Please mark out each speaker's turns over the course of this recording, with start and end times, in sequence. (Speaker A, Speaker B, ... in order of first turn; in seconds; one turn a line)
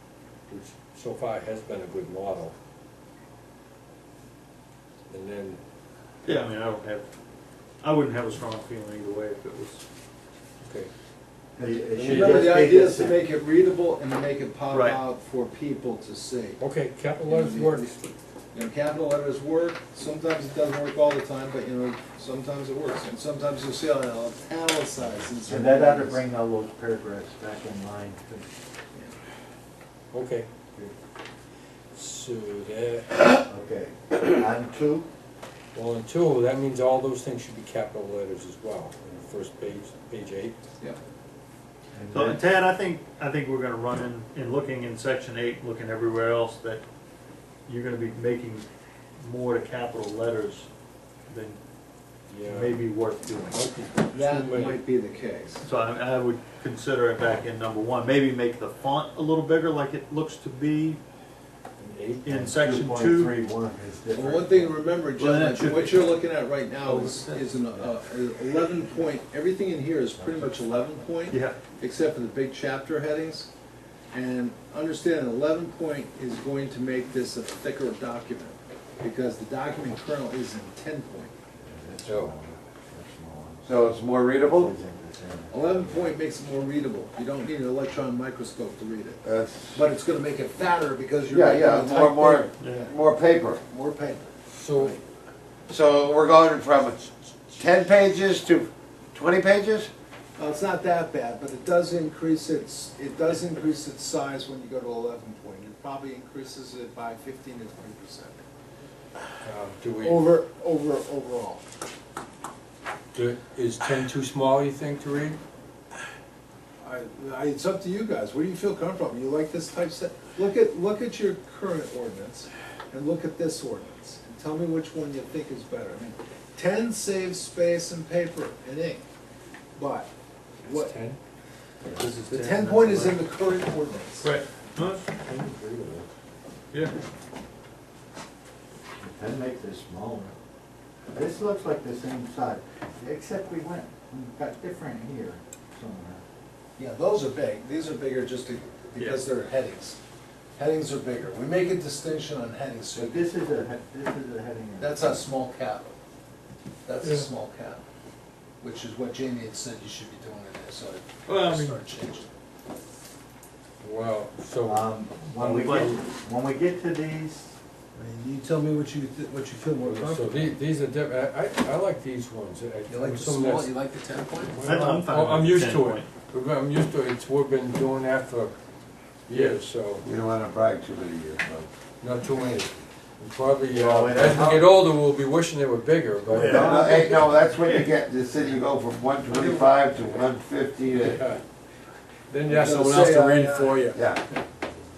Speaker A: 0.5-2.5
Speaker A: 5.1-5.6
Speaker B: 6.2-7.1
Speaker B: 7.8-9.8
Speaker A: 10.6-10.9
Speaker C: 11.6-13.2
Speaker A: 11.9-12.7
Speaker D: 12.1-16.6
Speaker B: 14.7-15.0
Speaker A: 16.6-18.1
Speaker D: 17.3-26.2
Speaker C: 25.5-28.5
Speaker A: 30.1-30.5
Speaker A: 31.9-33.4
Speaker C: 33.5-35.1
Speaker A: 35.7-40.6
Speaker C: 42.0-42.4
Speaker B: 42.1-46.8
Speaker B: 47.7-48.7
Speaker B: 49.2-50.7
Speaker B: 51.3-51.6
Speaker A: 52.3-52.9
Speaker B: 52.5-53.6
Speaker A: 53.5-54.8
Speaker D: 54.1-55.6
Speaker B: 55.6-61.0
Speaker A: 61.8-62.3
Speaker C: 62.2-64.8
Speaker B: 62.2-63.4
Speaker D: 64.1-73.5
Speaker B: 65.2-66.2
Speaker B: 66.8-67.5
Speaker C: 70.2-70.7
Speaker B: 71.3-71.6
Speaker D: 74.1-81.3
Speaker C: 81.6-86.2
Speaker A: 82.1-82.3
Speaker E: 83.7-84.7
Speaker D: 85.5-89.2
Speaker E: 89.2-89.9
Speaker D: 89.7-92.7
Speaker E: 91.2-93.6
Speaker B: 92.6-92.9
Speaker D: 93.7-95.0
Speaker A: 94.5-95.0
Speaker E: 95.7-99.9
Speaker D: 100.4-108.3
Speaker A: 109.4-110.2
Speaker D: 110.0-111.6
Speaker A: 113.1-115.4
Speaker D: 116.8-129.0
Speaker D: 129.8-130.1
Speaker D: 130.6-130.9
Speaker A: 130.6-131.2
Speaker B: 131.9-133.2
Speaker D: 132.3-134.3
Speaker B: 134.2-135.1
Speaker C: 135.0-136.1
Speaker B: 136.7-137.0
Speaker C: 139.0-140.3
Speaker C: 141.1-146.2
Speaker D: 146.8-150.0
Speaker D: 150.6-153.3
Speaker C: 152.9-155.3
Speaker D: 154.8-155.9
Speaker D: 156.9-157.8
Speaker B: 157.0-157.3
Speaker D: 158.6-162.3
Speaker B: 161.3-161.8
Speaker A: 163.8-166.0
Speaker C: 164.7-167.5
Speaker B: 165.6-165.9
Speaker D: 168.0-170.5
Speaker A: 169.9-173.7
Speaker D: 172.9-174.7
Speaker A: 174.5-178.5
Speaker B: 174.6-176.1
Speaker A: 179.3-180.1
Speaker B: 179.3-179.6
Speaker E: 180.0-181.7
Speaker A: 182.0-187.1
Speaker C: 183.7-184.8
Speaker C: 186.3-187.2
Speaker B: 186.3-186.8
Speaker E: 186.5-191.3
Speaker A: 191.0-191.4
Speaker A: 192.3-194.0
Speaker D: 192.4-193.9
Speaker E: 193.9-194.2